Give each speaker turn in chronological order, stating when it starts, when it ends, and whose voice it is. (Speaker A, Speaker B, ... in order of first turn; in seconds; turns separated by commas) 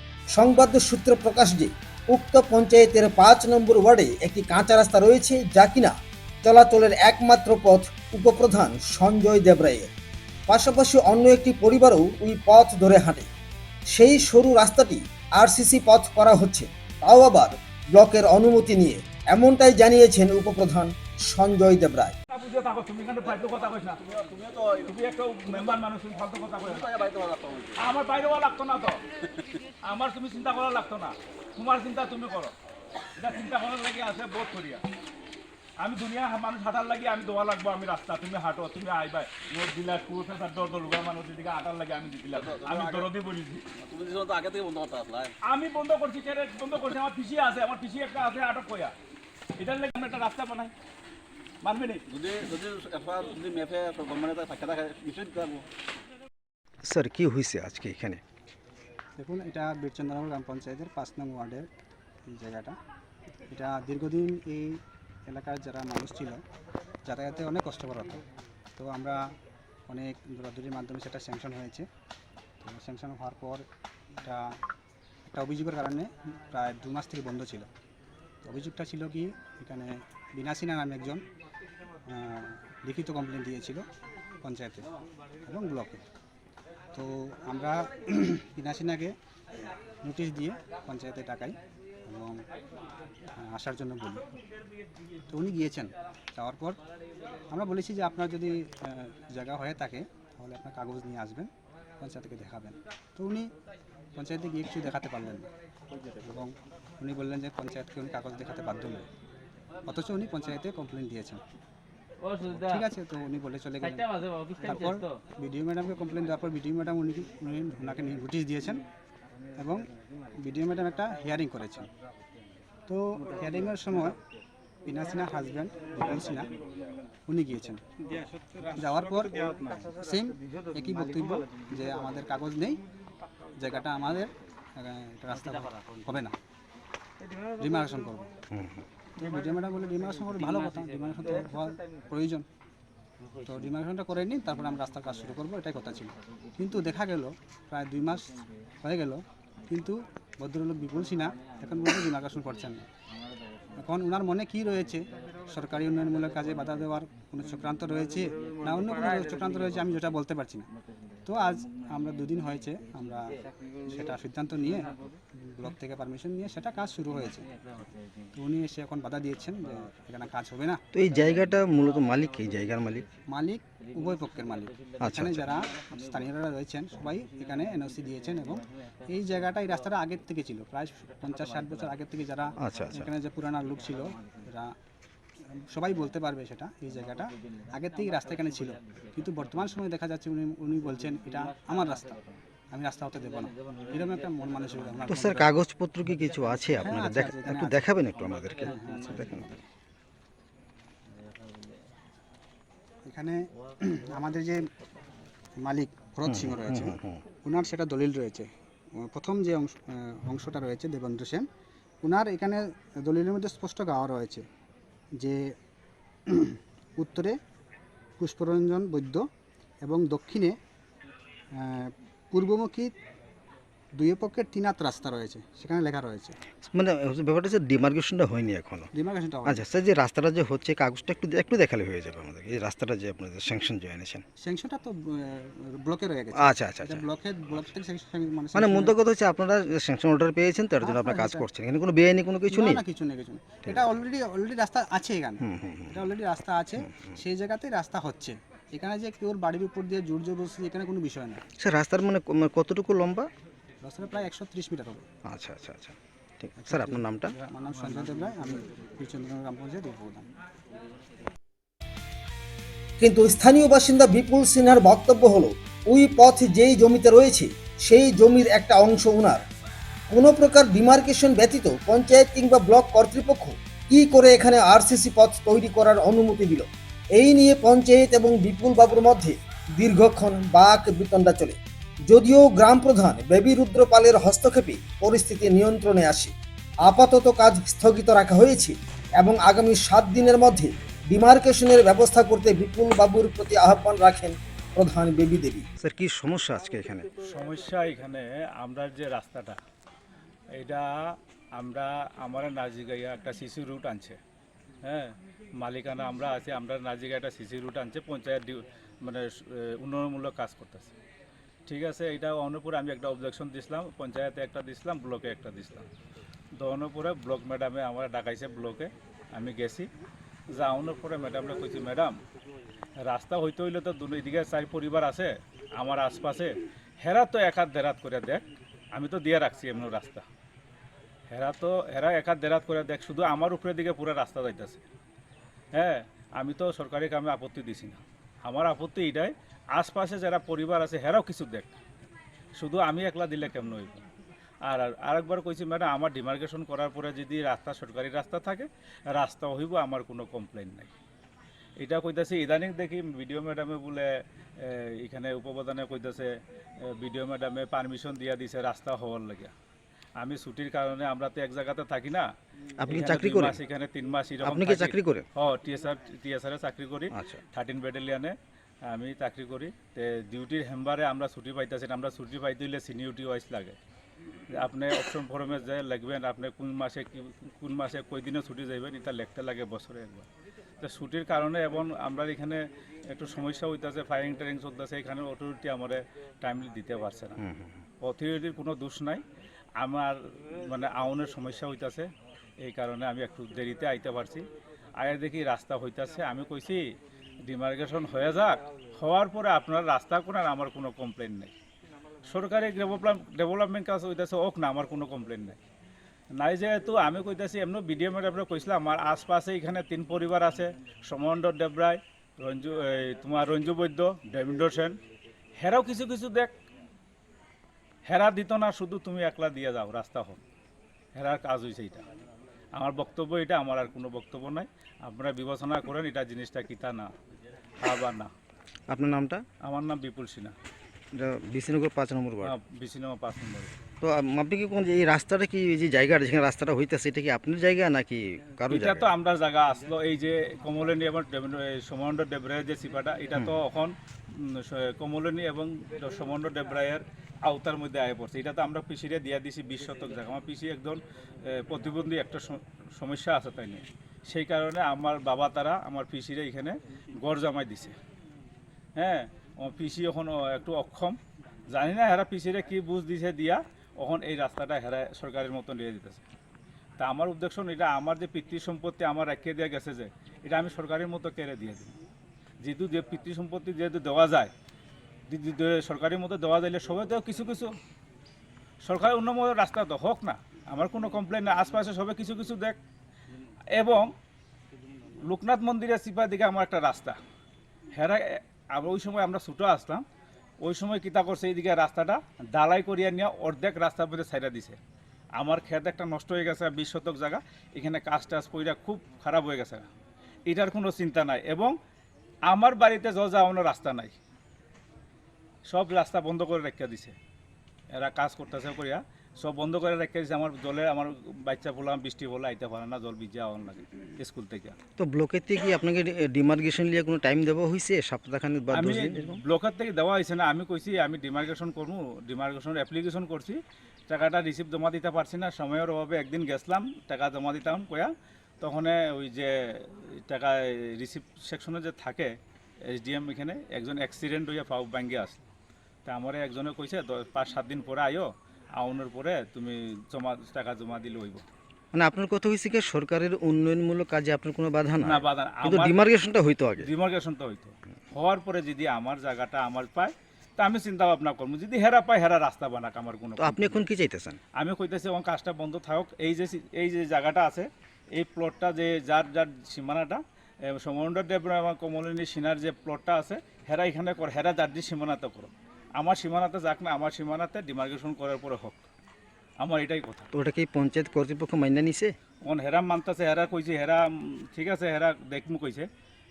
Speaker A: 0.3-9.9, Speaker A: 10.5-13.3, Speaker A: 13.9-22.1, Speaker B: 22.3-24.1, Speaker C: 24.0-24.9, Speaker B: 24.8-27.1, Speaker C: 26.7-27.8, Speaker B: 27.8-29.0, Speaker B: 29.9-32.5, Speaker B: 33.1-34.8, Speaker B: 35.8-43.6, Speaker C: 42.3-43.1, Speaker C: 43.8-45.3, Speaker B: 45.4-48.9, Speaker B: 49.6-50.7, Speaker B: 51.6-52.0, Speaker C: 52.1-55.6, Speaker D: 56.9-58.2, Speaker E: 59.2-61.7, Speaker E: 62.3-62.7, Speaker E: 63.5-66.4, Speaker E: 67.0-68.2, Speaker E: 68.8-69.2, Speaker E: 69.9-71.8, Speaker E: 72.6-73.6, Speaker E: 75.2-77.7, Speaker E: 78.4-81.2, Speaker E: 82.1-83.8, Speaker E: 84.4-84.8, Speaker E: 85.4-86.0, Speaker E: 86.9-89.1, Speaker E: 90.0-91.5, Speaker E: 92.1-92.4, Speaker E: 93.4-94.2, Speaker E: 95.3-96.8, Speaker E: 97.5-103.5, Speaker E: 104.2-105.5, Speaker E: 106.2-109.1, Speaker E: 109.9-111.4, Speaker E: 112.5-118.8, Speaker E: 119.6-119.9, Speaker E: 120.4-121.9, Speaker E: 122.9-124.2, Speaker E: 124.8-126.5, Speaker E: 127.3-127.8, Speaker E: 128.7-132.8, Speaker E: 133.6-136.3, Speaker E: 137.6-138.3, Speaker D: 138.5-138.8, Speaker E: 139.1-142.4, Speaker E: 143.4-152.9, Speaker E: 153.8-160.6, Speaker E: 161.2-163.3, Speaker E: 163.8-167.5, Speaker E: 168.3-170.8, Speaker D: 170.9-173.0, Speaker E: 173.3-184.7, Speaker D: 175.0-175.5, Speaker D: 182.6-183.1, Speaker E: 185.6-192.2, Speaker E: 192.7-195.5, Speaker D: 195.1-199.5, Speaker E: 196.8-197.9, Speaker E: 198.6-199.6, Speaker E: 203.1-204.7, Speaker E: 205.6-211.4, Speaker D: 206.3-207.2, Speaker E: 212.0-214.4, Speaker E: 216.3-217.4, Speaker E: 218.2-219.2, Speaker E: 219.8-220.6, Speaker E: 221.6-222.9, Speaker E: 223.9-226.3, Speaker D: 226.6-228.9, Speaker E: 228.9-229.6, Speaker D: 229.4-234.2, Speaker E: 234.4-238.9, Speaker D: 236.3-237.0, Speaker D: 238.5-242.8, Speaker E: 240.8-241.4, Speaker E: 242.5-251.4, Speaker D: 245.4-246.1, Speaker D: 251.6-253.3, Speaker E: 253.8-255.1, Speaker D: 255.3-257.3, Speaker E: 256.6-260.3, Speaker A: 263.0-269.4, Speaker A: 270.1-295.6, Speaker D: 295.8-297.1, Speaker B: 297.2-299.6, Speaker B: 300.5-304.2, Speaker B: 304.8-310.9, Speaker B: 311.7-315.9, Speaker B: 316.6-319.9, Speaker B: 320.5-322.1, Speaker B: 323.0-328.4, Speaker B: 328.9-330.2, Speaker B: 331.3-334.8, Speaker B: 335.7-341.7, Speaker B: 342.6-344.0, Speaker B: 344.6-350.9, Speaker B: 351.8-356.3, Speaker B: 356.8-359.5, Speaker B: 360.2-362.3, Speaker D: 362.8-363.6, Speaker B: 362.9-368.3, Speaker D: 364.4-365.2, Speaker D: 367.1-367.4, Speaker B: 368.9-373.8, Speaker B: 374.5-380.3, Speaker B: 380.8-387.4, Speaker D: 387.4-387.8, Speaker B: 388.0-389.2, Speaker B: 389.8-392.1, Speaker B: 392.6-394.5, Speaker B: 395.0-396.8, Speaker B: 397.4-401.5, Speaker B: 402.2-405.6, Speaker B: 406.4-415.0, Speaker B: 415.6-416.5, Speaker B: 418.1-420.4, Speaker B: 421.1-422.0, Speaker B: 422.7-427.1, Speaker B: 427.8-428.3, Speaker D: 428.9-429.4, Speaker B: 429.6-430.5, Speaker D: 431.1-432.5, Speaker B: 432.4-433.7, Speaker D: 434.0-439.1, Speaker B: 438.7-457.9, Speaker B: 459.0-461.2, Speaker B: 461.7-466.2, Speaker B: 467.0-471.9, Speaker B: 472.6-474.5, Speaker B: 475.3-477.7, Speaker B: 478.8-482.8, Speaker B: 483.7-484.1, Speaker B: 485.2-487.2, Speaker B: 487.9-490.0, Speaker B: 490.6-494.8, Speaker B: 495.4-499.9, Speaker B: 500.5-501.7, Speaker B: 502.5-504.1, Speaker B: 505.7-507.1, Speaker B: 508.0-514.8, Speaker D: 515.0-519.4, Speaker B: 518.7-523.6, Speaker B: 524.1-532.3, Speaker B: 532.9-535.4, Speaker B: 536.0-541.4, Speaker D: 541.9-546.9, Speaker B: 545.0-546.1, Speaker B: 546.8-553.8, Speaker D: 553.4-554.4, Speaker B: 554.6-568.8, Speaker B: 569.6-570.3, Speaker D: 570.3-572.1, Speaker B: 572.4-575.9